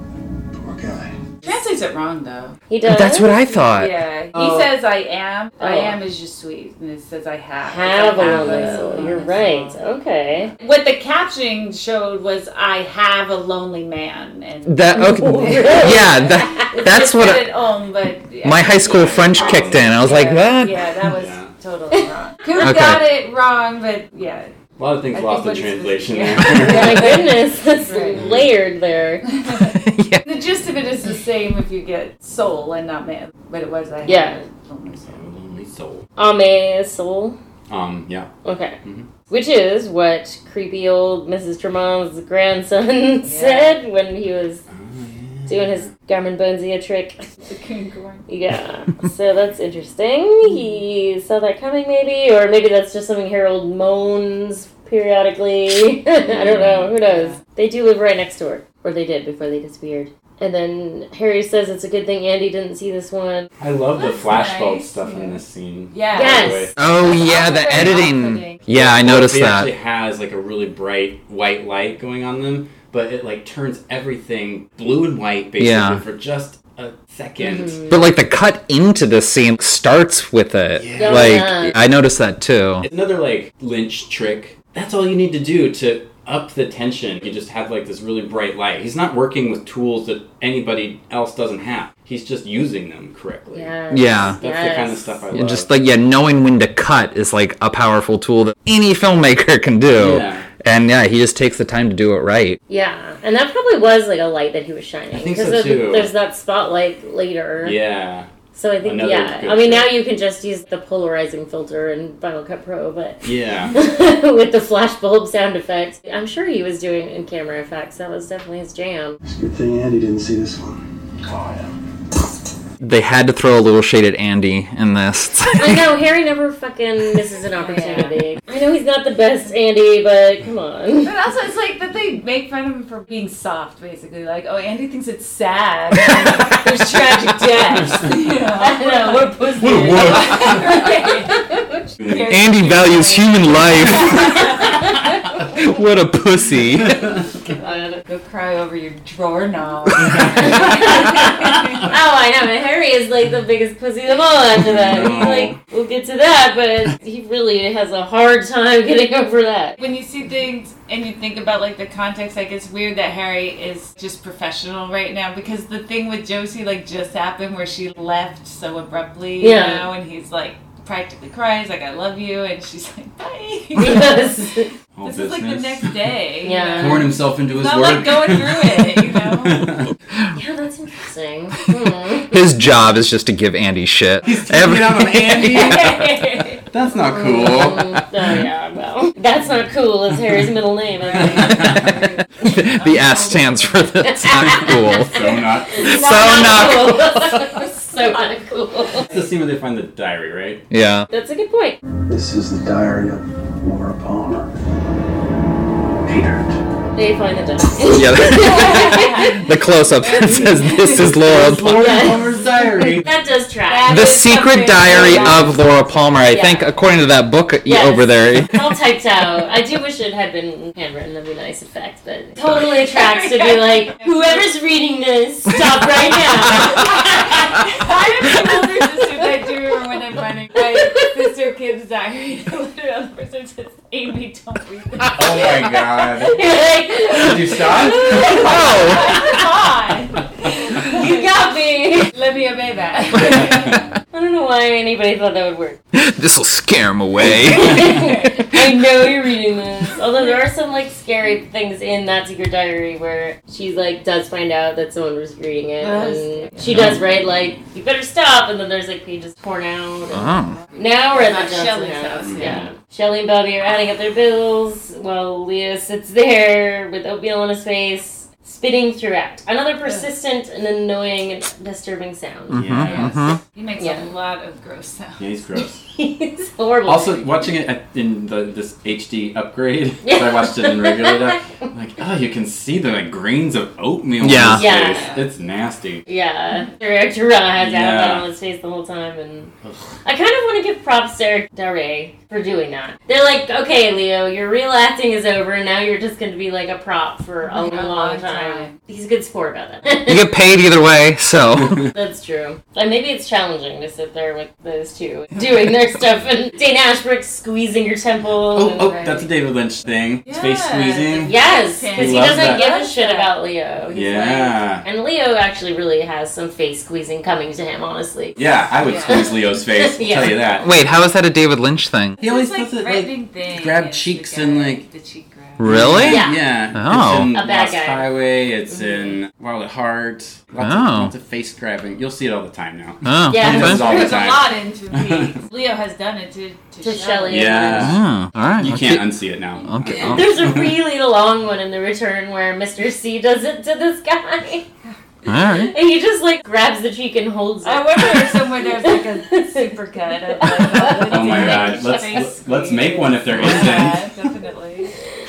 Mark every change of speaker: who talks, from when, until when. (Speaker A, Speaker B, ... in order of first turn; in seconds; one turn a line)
Speaker A: 0.5-1.1
Speaker B: 1.4-2.6
Speaker C: 2.7-3.3
Speaker D: 2.8-3.9
Speaker B: 3.5-9.8
Speaker C: 5.6-6.0
Speaker C: 7.6-10.5
Speaker B: 10.6-24.5
Speaker D: 14.7-17.6
Speaker C: 15.0-16.1
Speaker D: 18.4-21.0
Speaker E: 18.9-20.1
Speaker E: 21.1-21.5
Speaker D: 22.6-23.0
Speaker E: 24.8-27.2
Speaker B: 25.1-28.3
Speaker C: 26.6-29.2
Speaker E: 28.1-28.5
Speaker B: 29.4-35.2
Speaker D: 29.6-30.2
Speaker C: 34.0-34.4
Speaker E: 35.1-36.0
Speaker C: 36.2-37.4
Speaker E: 37.7-38.3
Speaker C: 38.4-38.8
Speaker C: 39.3-44.6
Speaker B: 43.2-43.8
Speaker E: 44.7-45.9
Speaker C: 45.5-47.2
Speaker B: 47.4-48.3
Speaker C: 48.3-63.5
Speaker E: 56.3-56.9
Speaker B: 57.0-57.4
Speaker E: 63.6-66.7
Speaker B: 63.9-68.6
Speaker C: 66.1-66.7
Speaker D: 66.8-69.7
Speaker E: 68.7-77.8
Speaker D: 75.6-76.0
Speaker C: 77.4-78.0
Speaker D: 77.9-82.9
Speaker E: 80.8-81.4
Speaker C: 81.0-81.7
Speaker E: 82.8-93.7
Speaker C: 93.5-95.2
Speaker D: 93.9-94.4
Speaker E: 94.4-95.7
Speaker D: 95.3-102.6
Speaker E: 100.0-100.5
Speaker C: 102.7-107.8
Speaker E: 105.1-106.1
Speaker E: 107.6-108.3
Speaker C: 108.5-119.2
Speaker E: 108.8-109.9
Speaker E: 113.2-113.7
Speaker A: 119.2-121.7
Speaker D: 122.8-125.9
Speaker C: 125.6-131.1
Speaker B: 127.5-128.2
Speaker B: 131.0-141.5
Speaker C: 138.6-141.8
Speaker E: 139.7-140.8
Speaker E: 142.0-142.5
Speaker B: 142.0-144.8
Speaker D: 142.3-144.6
Speaker C: 144.0-144.8
Speaker D: 145.4-147.2
Speaker C: 147.6-148.0
Speaker B: 148.1-151.9
Speaker C: 150.4-159.8
Speaker E: 154.6-155.6
Speaker B: 159.8-179.7
Speaker C: 169.4-169.9
Speaker C: 173.7-174.7
Speaker E: 174.9-176.1
Speaker C: 176.4-177.1
Speaker E: 176.8-179.9
Speaker C: 180.3-182.4
Speaker D: 182.3-186.0
Speaker E: 184.2-186.2
Speaker B: 185.5-186.6
Speaker E: 186.7-188.1
Speaker C: 187.0-191.8
Speaker B: 191.0-193.8
Speaker E: 191.3-191.9
Speaker D: 192.4-197.6
Speaker C: 194.1-195.1
Speaker E: 195.0-196.0
Speaker C: 195.8-199.1
Speaker B: 196.2-196.6
Speaker E: 199.1-200.6
Speaker D: 200.7-201.1
Speaker C: 201.1-201.8
Speaker A: 202.1-204.5
Speaker A: 206.0-206.6
Speaker C: 206.9-209.3
Speaker D: 207.8-212.1
Speaker B: 208.3-211.2
Speaker E: 210.9-213.1
Speaker C: 211.7-214.2
Speaker B: 213.7-216.2
Speaker D: 213.9-218.7
Speaker C: 214.8-215.5
Speaker C: 216.2-216.7
Speaker C: 217.6-227.6
Speaker B: 222.4-224.5
Speaker B: 226.4-235.7
Speaker E: 235.1-236.4
Speaker C: 236.2-239.4
Speaker E: 237.1-238.5
Speaker B: 238.0-241.4
Speaker D: 238.2-239.3
Speaker C: 240.7-242.1
Speaker B: 242.1-243.9
Speaker E: 243.2-243.8
Speaker C: 244.1-245.8
Speaker D: 245.9-248.6
Speaker B: 247.5-248.4
Speaker C: 247.6-273.1
Speaker B: 255.8-257.0
Speaker D: 256.7-257.0
Speaker D: 260.1-260.6
Speaker B: 260.5-262.7
Speaker E: 262.2-262.6
Speaker B: 269.8-270.1
Speaker D: 272.5-273.4
Speaker E: 272.5-273.2
Speaker B: 272.9-275.3
Speaker C: 273.8-274.1
Speaker E: 275.2-275.8
Speaker C: 275.9-277.3
Speaker E: 276.9-286.0
Speaker C: 280.0-281.3
Speaker D: 284.2-284.6
Speaker C: 284.6-285.1
Speaker B: 284.9-285.2
Speaker C: 286.1-289.5
Speaker E: 287.6-288.2
Speaker C: 290.0-300.3
Speaker B: 297.4-298.7
Speaker D: 300.0-301.9
Speaker C: 301.9-309.0
Speaker E: 308.5-311.3
Speaker B: 308.8-309.2
Speaker B: 310.2-313.3
Speaker C: 311.2-318.4
Speaker E: 311.9-312.7
Speaker E: 313.9-314.8
Speaker E: 318.4-320.7
Speaker B: 318.8-319.3
Speaker C: 319.1-320.4
Speaker D: 320.6-322.2
Speaker B: 322.2-326.1
Speaker E: 322.2-324.8
Speaker D: 325.6-327.3
Speaker E: 325.6-335.4
Speaker C: 326.1-326.5
Speaker C: 327.3-328.1
Speaker B: 328.7-329.1
Speaker D: 330.6-331.1
Speaker D: 333.0-333.8
Speaker C: 333.3-334.2
Speaker B: 333.7-337.9
Speaker C: 336.8-337.9
Speaker E: 337.3-338.0
Speaker D: 337.8-340.5
Speaker E: 338.6-340.8
Speaker C: 340.0-344.6
Speaker D: 345.2-345.7
Speaker C: 345.5-349.7
Speaker B: 347.6-354.9
Speaker C: 350.3-352.2
Speaker E: 351.1-354.1